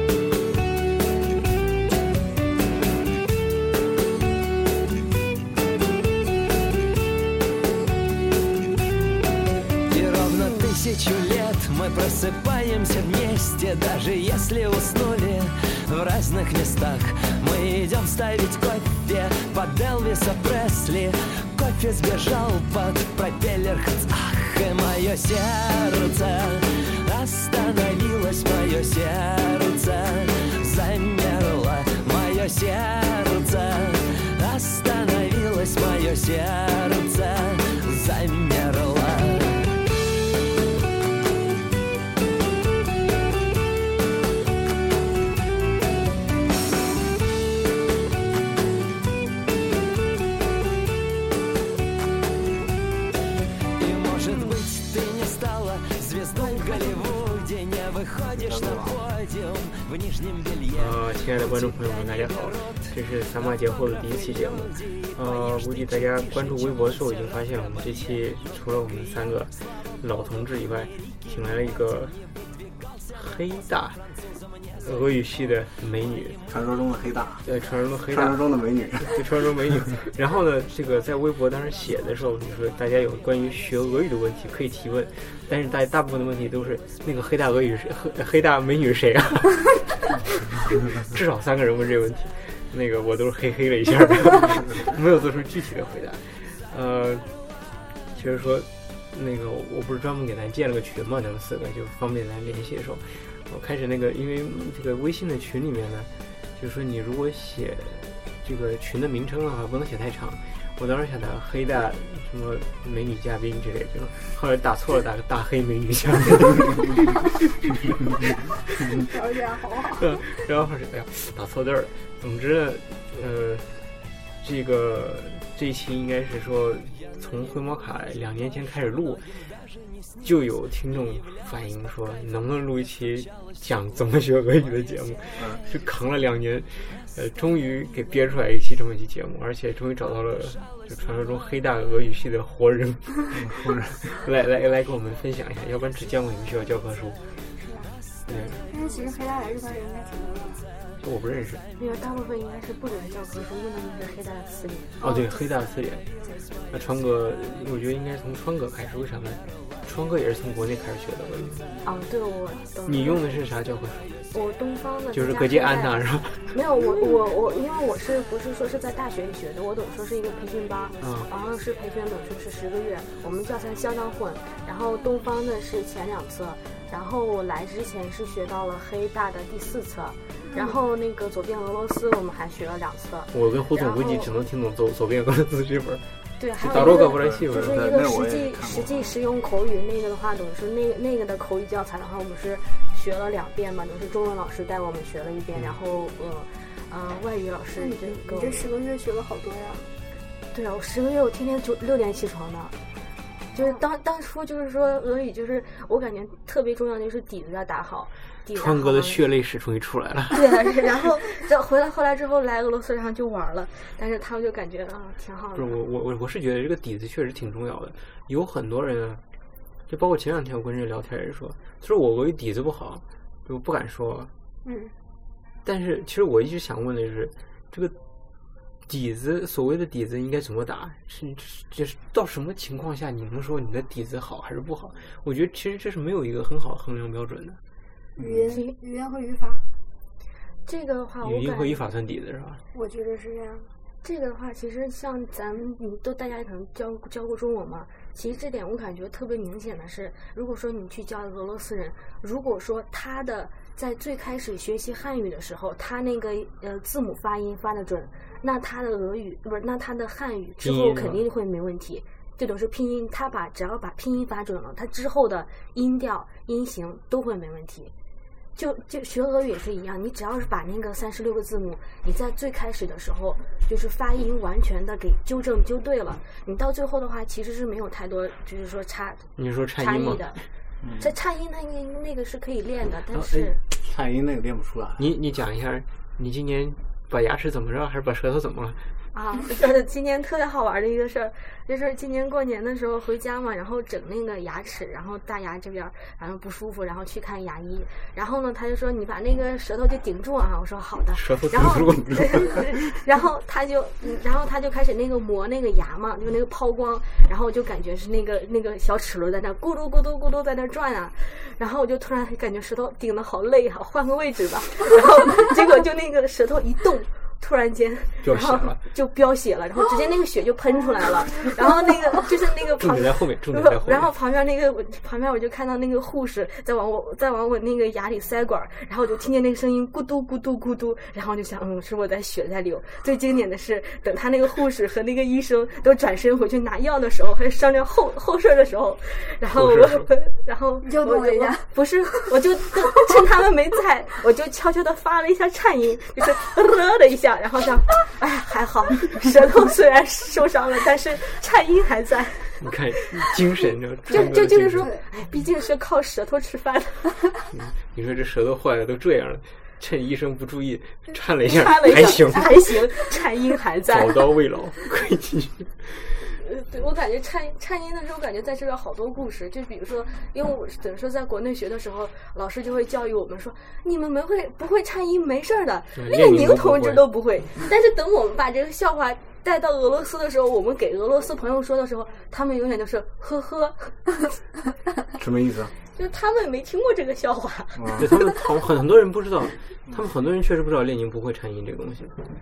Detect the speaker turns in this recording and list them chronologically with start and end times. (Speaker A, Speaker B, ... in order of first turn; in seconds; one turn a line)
Speaker A: 9.9-39.8
Speaker A: 53.8-62.5
Speaker B: 56.4-57.3
Speaker C: 58.2-59.0
Speaker D: 60.7-72.2
Speaker A: 64.3-64.7
Speaker D: 73.1-74.0
Speaker D: 74.8-76.4
Speaker C: 76.5-77.5
Speaker D: 77.4-89.8
Speaker C: 78.1-79.3
Speaker D: 91.0-97.3
Speaker D: 98.1-117.8
Speaker E: 118.9-120.2
Speaker D: 120.0-123.7
Speaker D: 124.4-129.2
Speaker D: 130.2-147.2
Speaker C: 135.4-135.6
Speaker C: 143.3-144.0
Speaker E: 147.6-148.0
Speaker D: 148.3-148.6
Speaker E: 148.7-150.7
Speaker D: 151.0-151.7
Speaker B: 151.8-155.1
Speaker D: 155.0-156.1
Speaker D: 156.7-161.8
Speaker B: 161.8-163.3
Speaker D: 162.8-164.2
Speaker B: 164.3-184.3
Speaker D: 165.1-166.6
Speaker D: 171.0-171.3
Speaker E: 180.4-180.8
Speaker D: 183.3-186.0
Speaker B: 186.4-198.7
Speaker D: 186.6-187.8
Speaker C: 186.7-189.2
Speaker E: 197.8-199.9
Speaker B: 200.5-202.8
Speaker B: 203.5-209.2
Speaker D: 208.5-210.5
Speaker B: 210.3-215.8
Speaker D: 215.6-219.2
Speaker D: 219.9-224.3
Speaker E: 224.7-224.9
Speaker D: 225.7-228.0
Speaker D: 228.9-237.6
Speaker C: 238.2-238.6
Speaker E: 238.2-239.6
Speaker B: 238.5-238.7
Speaker B: 240.7-241.8
Speaker D: 241.2-242.6
Speaker E: 242.7-243.7
Speaker B: 244.0-267.9
Speaker D: 260.6-261.2
Speaker B: 268.6-280.4
Speaker D: 279.4-280.4
Speaker C: 280.8-281.1
Speaker B: 281.0-283.6
Speaker C: 283.8-285.1
Speaker D: 285.0-288.8
Speaker B: 289.1-352.6
Speaker D: 301.1-302.7
Speaker D: 318.2-318.8
Speaker D: 322.8-324.1
Speaker D: 339.5-340.1
Speaker E: 340.8-341.8
Speaker D: 352.6-354.9
Speaker B: 354.1-357.2
Speaker E: 354.1-355.1
Speaker D: 357.5-362.6
Speaker B: 361.5-364.4
Speaker D: 363.9-366.1
Speaker B: 366.2-384.2
Speaker D: 375.9-377.1
Speaker C: 385.2-385.7
Speaker B: 385.9-387.9
Speaker C: 387.8-388.2
Speaker D: 388.0-392.1